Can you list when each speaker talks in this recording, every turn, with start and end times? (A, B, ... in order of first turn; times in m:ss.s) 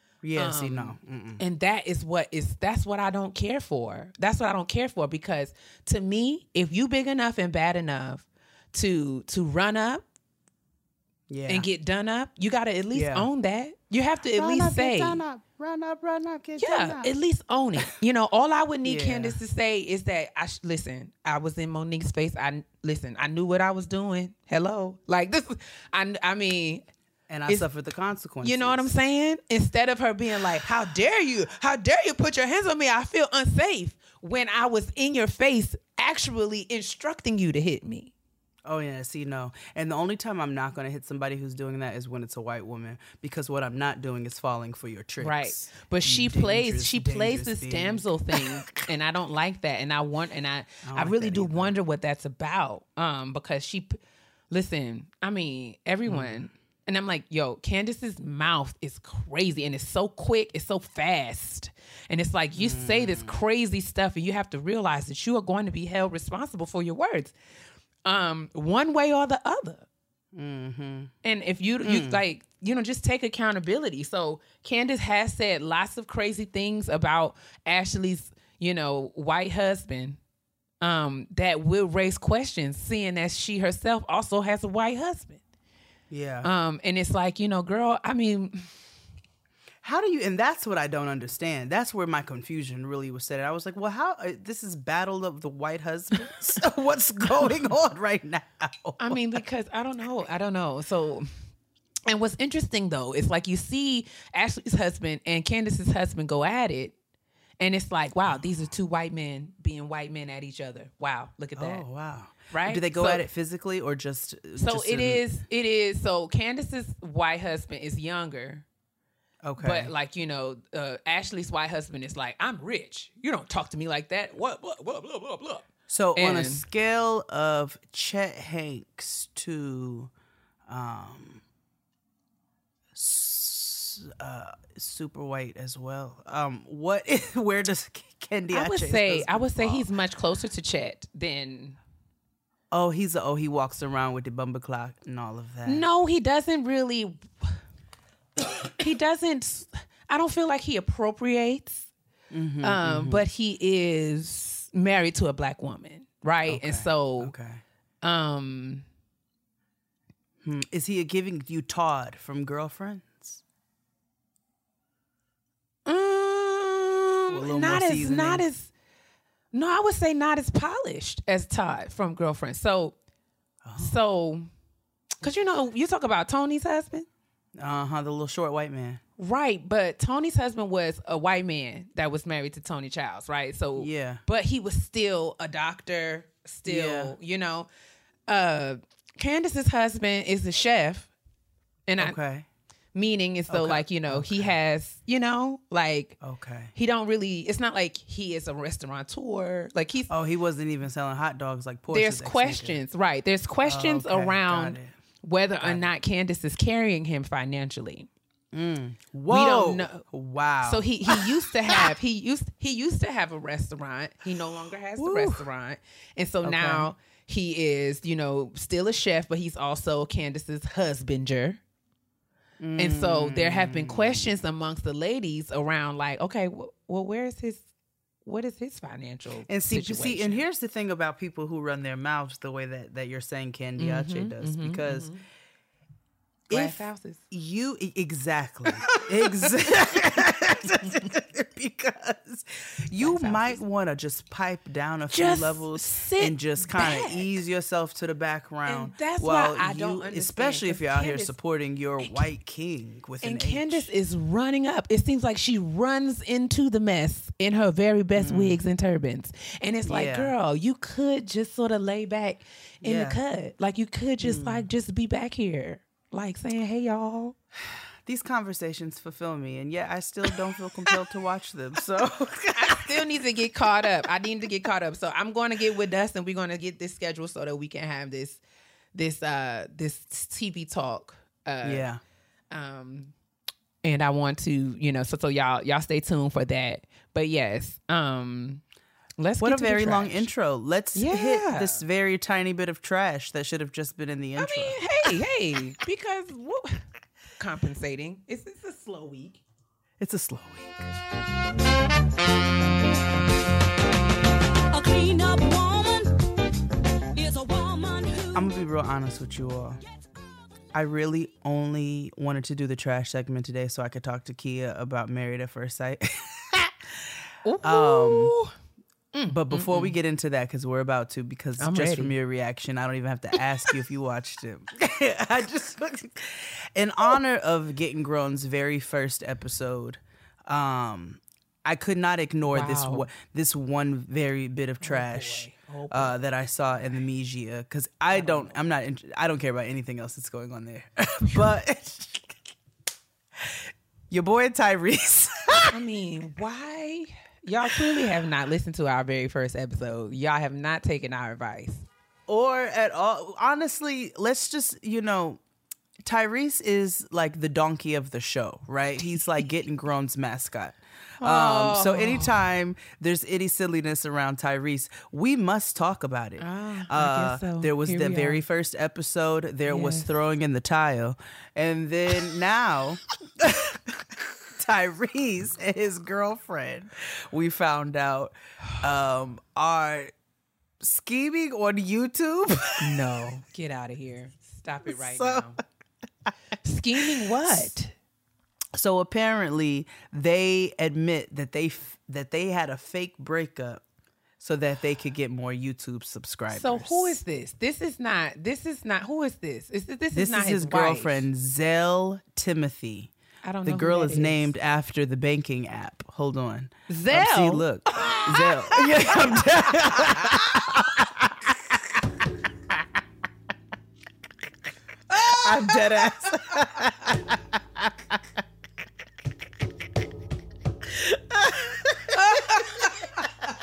0:00.2-0:01.4 A
0:00.4-0:10.0 B
0:11.3-0:11.7 A
0:11.5-0:15.2 B
0:12.9-0:13.3 A
0:14.4-0:17.1 A
0:16.6-0:26.8 B
0:18.8-0:19.4 A
0:27.3-0:28.9 A
0:28.4-0:38.1 B
0:38.6-0:48.8 A
0:45.2-0:54.0 B
0:50.8-0:51.7 A
0:54.5-1:07.3 B
0:56.1-0:56.5 A
1:02.6-1:03.3 A
1:08.0-1:09.8 B
1:10.3-1:11.1 A
1:11.2-1:20.2 B
1:11.8-1:12.2 A
1:20.8-1:25.4 B
1:26.1-1:26.5 A
1:26.4-1:28.8 B
1:29.8-1:39.1 A
1:39.0-1:41.3 B
1:42.1-1:46.9 B
1:47.6-1:51.8 B
1:51.6-1:55.2 A
1:52.5-1:53.2 B
1:54.6-1:58.6 B
1:59.4-1:59.9 A
1:59.6-2:06.6 B
2:05.9-2:10.1 A
2:10.7-2:11.4 A
2:12.9-2:19.9 A
2:18.5-2:21.8 B
2:22.7-2:25.8 A
2:25.6-2:27.6 B
2:28.4-2:31.9 B
2:32.3-2:33.2 A
2:32.6-2:37.3 B
2:36.5-2:37.6 A
2:38.0-2:38.8 B
2:40.4-2:43.4 A
2:45.8-2:48.7 B
2:47.3-2:48.4 A
2:49.5-2:52.9 B
2:53.6-2:53.9 A
2:53.8-2:54.5 B
2:55.2-2:57.1 B
2:57.6-2:59.0 A
2:59.2-3:07.7 B
3:03.8-3:04.2 A
3:06.6-3:07.1 A
3:08.3-3:11.1 B
3:11.9-3:12.2 B
3:12.0-3:12.5 A
3:12.9-3:16.2 B
3:13.5-3:14.5 A
3:16.2-3:16.7 A
3:16.7-3:20.1 B
3:20.1-3:22.8 A
3:21.9-3:28.1 B
3:23.6-3:24.9 A
3:25.6-3:25.8 A
3:28.5-3:31.4 A
3:29.3-3:30.0 B
3:30.6-3:41.6 B
3:35.0-3:35.4 A
3:36.4-3:36.9 A
3:42.6-3:44.3 A
3:42.8-3:47.6 B
3:48.2-3:50.4 B
3:49.5-3:55.1 A
3:53.8-3:55.2 B
3:56.5-4:13.9 A
3:56.5-3:57.2 B
3:58.9-3:59.8 B
4:00.7-4:01.1 B
4:03.0-4:03.6 B
4:05.1-4:07.4 B
4:08.6-4:11.3 B
4:12.0-4:12.2 B
4:13.2-4:27.4 B
4:18.2-4:18.6 A
4:19.8-4:20.3 A
4:22.8-4:23.2 A
4:24.2-4:24.6 A
4:28.0-4:33.0 A
4:32.5-4:38.4 B
4:38.9-4:41.8 B
4:41.6-4:42.0 A
4:42.5-4:43.1 B
4:43.8-4:48.6 B
4:49.2-4:50.3 B
4:49.4-4:54.8 A
4:50.9-4:51.8 B
4:54.4-4:56.8 B
4:57.4-4:59.4 B
5:00.0-5:00.8 A
5:04.8-5:05.9 B
5:04.8-5:06.0 C
5:07.2-5:08.2 C
5:08.3-5:09.8 A
5:10.7-5:16.7 A
5:17.4-5:18.5 B
5:17.6-5:18.3 A
5:19.1-5:20.0 B
5:19.3-5:42.4 A
5:21.6-5:22.1 B
5:32.5-5:33.1 B
5:34.8-5:36.2 B
5:38.1-5:38.6 B
5:43.4-5:45.8 A
5:45.7-5:51.9 B
5:52.3-5:55.4 A
5:56.0-6:20.1 A
6:01.2-6:02.4 B
6:06.4-6:08.4 B
6:09.7-6:10.1 B
6:20.8-6:23.1 A
6:22.8-6:25.6 B
6:24.9-6:25.6 A
6:26.6-6:27.9 B
6:27.0-6:27.7 A
6:28.7-6:33.8 A
6:34.4-6:37.2 A
6:36.5-6:41.2 B
6:40.1-6:43.1 A
6:43.4-6:44.5 B
6:43.6-6:51.4 A
6:46.9-6:50.9 B
6:55.1-6:56.7 B
6:55.3-6:57.9 A
7:00.9-7:02.6 A
7:02.1-7:03.2 B